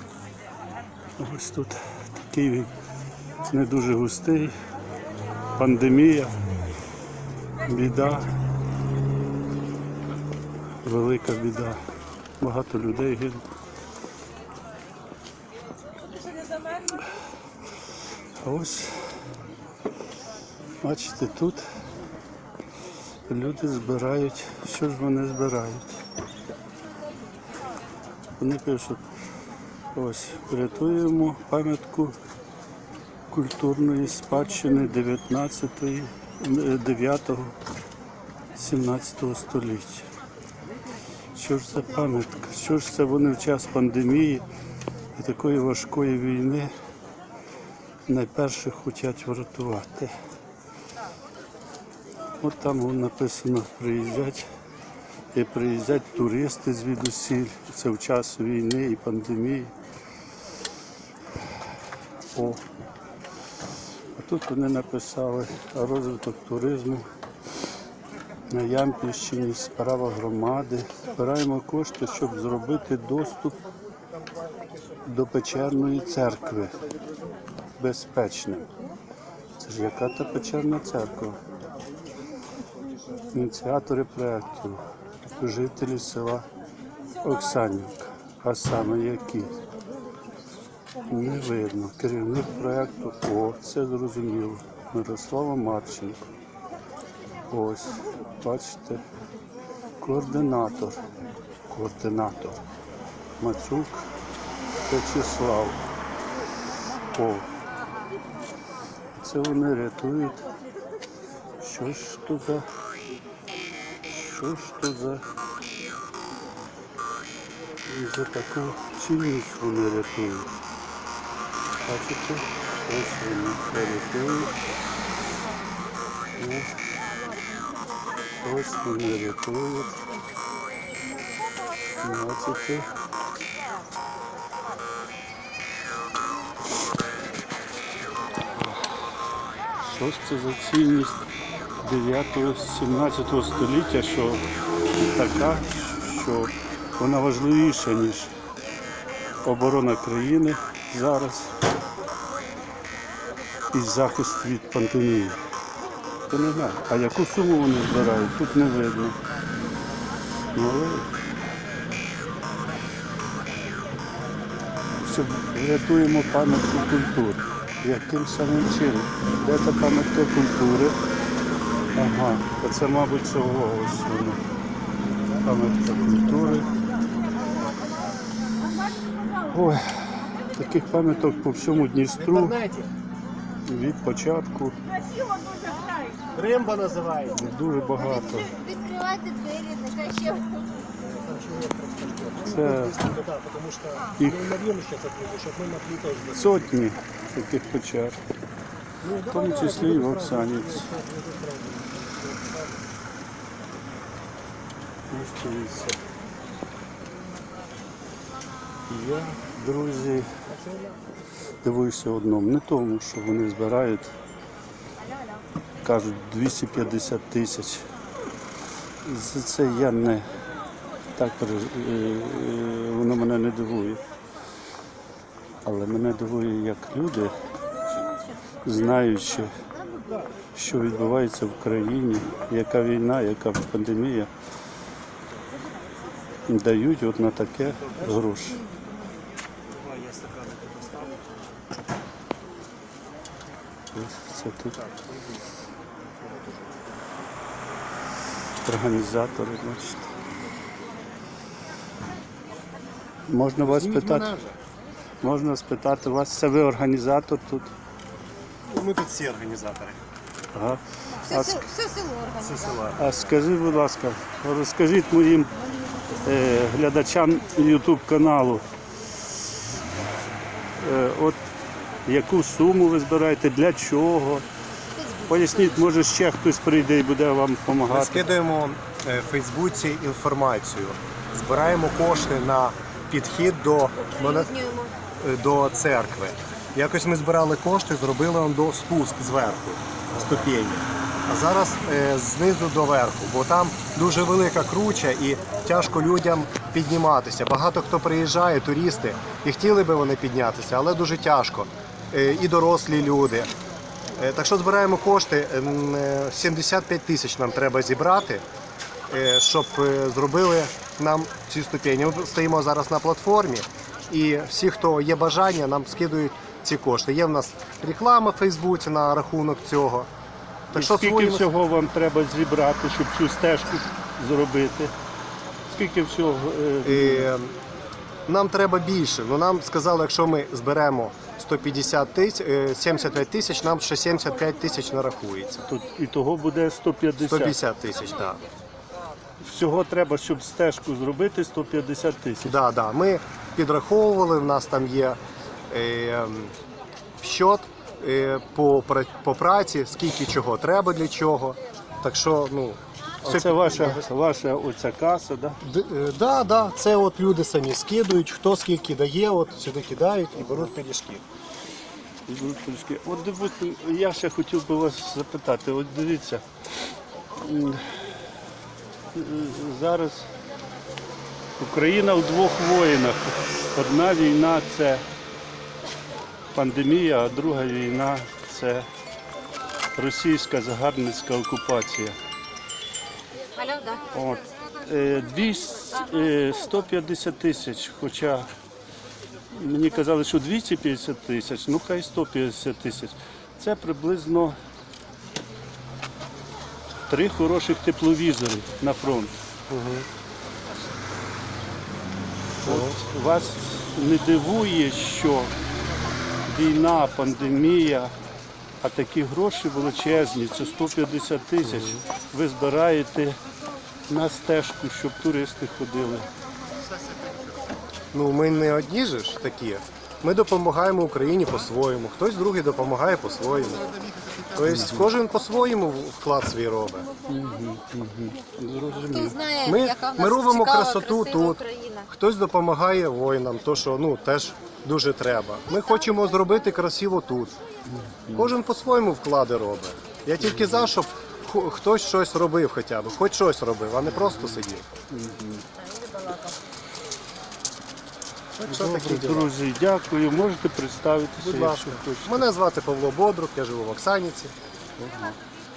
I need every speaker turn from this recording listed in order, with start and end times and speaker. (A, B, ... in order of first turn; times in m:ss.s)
0:01.2-0:02.7 A
0:03.5-0:04.6 A
0:05.6-0:06.4 A
0:07.7-0:08.3 A
0:10.8-0:11.8 A
0:12.4-0:13.4 A
0:18.4-0:19.1 A
0:20.8-0:21.6 A
0:23.3-0:26.0 A
0:28.4-0:29.0 A
0:29.9-0:32.2 A
0:33.3-0:37.6 A
0:38.6-0:40.1 A
0:41.4-0:44.4 A
0:45.2-0:46.7 A
0:48.1-0:50.1 A
0:52.4-0:54.5 A
0:55.3-0:59.7 A
1:02.3-1:02.6 A
1:04.2-1:07.1 A
1:08.5-1:13.6 A
1:15.1-1:16.7 A
1:17.8-1:18.7 A
1:19.6-1:21.4 A
1:23.3-1:24.8 A
1:25.4-1:26.5 A
1:27.2-1:29.6 A
1:31.1-1:36.2 A
1:37.5-1:39.0 A
1:40.0-1:41.0 A
1:41.7-1:42.6 A
1:43.4-1:44.0 A
1:44.9-1:45.8 A
1:47.1-1:47.5 A
1:49.2-1:50.4 A
1:51.6-1:52.7 A
1:54.1-1:55.2 A
1:57.9-2:00.5 A
2:01.8-2:04.5 A
2:06.4-2:06.7 A
2:08.4-2:10.0 A
2:12.0-2:12.9 A
2:19.8-2:21.2 A
2:21.8-2:24.4 A
2:25.0-2:28.3 A
2:29.4-2:31.5 A
2:33.7-2:35.4 A
2:36.3-2:39.2 A
2:40.6-2:41.1 A
2:45.0-2:51.0 A
2:52.0-2:54.4 A
2:55.4-2:56.7 A
2:59.5-3:02.6 A
3:02.2-3:02.9 B
3:03.6-3:04.8 A
3:06.3-3:07.4 B
3:07.3-3:08.5 A
3:08.3-3:10.7 C
3:11.0-3:16.7 B
3:12.4-3:13.0 A
3:16.3-3:18.2 A
3:19.0-3:22.8 B
3:19.2-3:20.9 A
3:25.1-3:26.0 A
3:28.9-3:30.3 A
3:31.6-3:34.1 A
3:35.8-3:37.9 A
3:39.0-3:40.3 A
3:41.2-3:44.0 A
3:45.6-3:47.3 A
3:48.6-3:49.5 A
3:50.6-3:54.3 A
3:56.5-3:58.6 A
3:59.8-4:01.2 B
4:03.9-4:04.8 A
4:08.6-4:10.1 A
4:13.3-4:14.3 A
4:13.6-4:14.6 B
4:15.2-4:17.7 A
4:18.7-4:20.0 B
4:20.5-4:21.7 A
4:21.3-4:22.8 C
4:22.4-4:23.3 B
4:23.0-4:25.5 A
4:26.2-4:28.6 A
4:30.8-4:31.4 A
4:32.1-4:34.5 A
4:35.0-4:35.7 C
4:35.3-4:38.3 A
4:37.7-4:44.6 B
4:44.2-4:44.9 C
4:45.2-5:03.5 B
5:04.2-5:08.4 B
5:09.1-5:20.1 B
5:20.7-5:21.5 B
5:20.7-5:24.9 A
5:25.7-5:27.3 A
5:26.8-5:27.6 B
5:28.3-5:35.7 B
5:35.7-5:37.6 A
5:37.2-5:38.4 B
5:39.4-5:42.6 A
5:42.4-5:45.2 B
5:45.7-5:46.5 B
5:47.2-5:54.0 B
5:53.2-5:55.6 A
5:55.6-6:01.2 B
6:02.3-6:06.4 A
6:07.4-6:07.8 A
6:09.1-6:10.3 A
6:11.6-6:15.0 A
6:16.5-6:18.9 A
6:20.0-6:22.2 A
6:23.6-6:24.0 C
6:24.1-6:28.5 A
6:29.5-6:34.6 A
6:37.1-6:39.3 A
6:39.7-6:40.1 B
6:42.6-6:43.0 B
6:42.6-6:45.6 A
6:46.5-6:48.1 A
6:48.8-6:53.4 A
6:51.7-6:52.0 B
6:54.1-6:56.3 A
6:58.1-7:04.0 B
7:04.6-7:07.1 B
7:04.7-7:05.1 A
7:07.3-7:09.4 A
7:09.1-7:12.1 C
7:09.6-7:17.6 B
7:17.9-7:18.5 A
7:18.4-7:24.9 B
7:20.4-7:20.9 A
7:24.1-7:25.6 A
7:26.0-7:26.5 C
7:28.6-7:29.5 B
7:28.7-7:32.5 A
7:31.4-7:34.6 B
7:35.0-7:35.4 A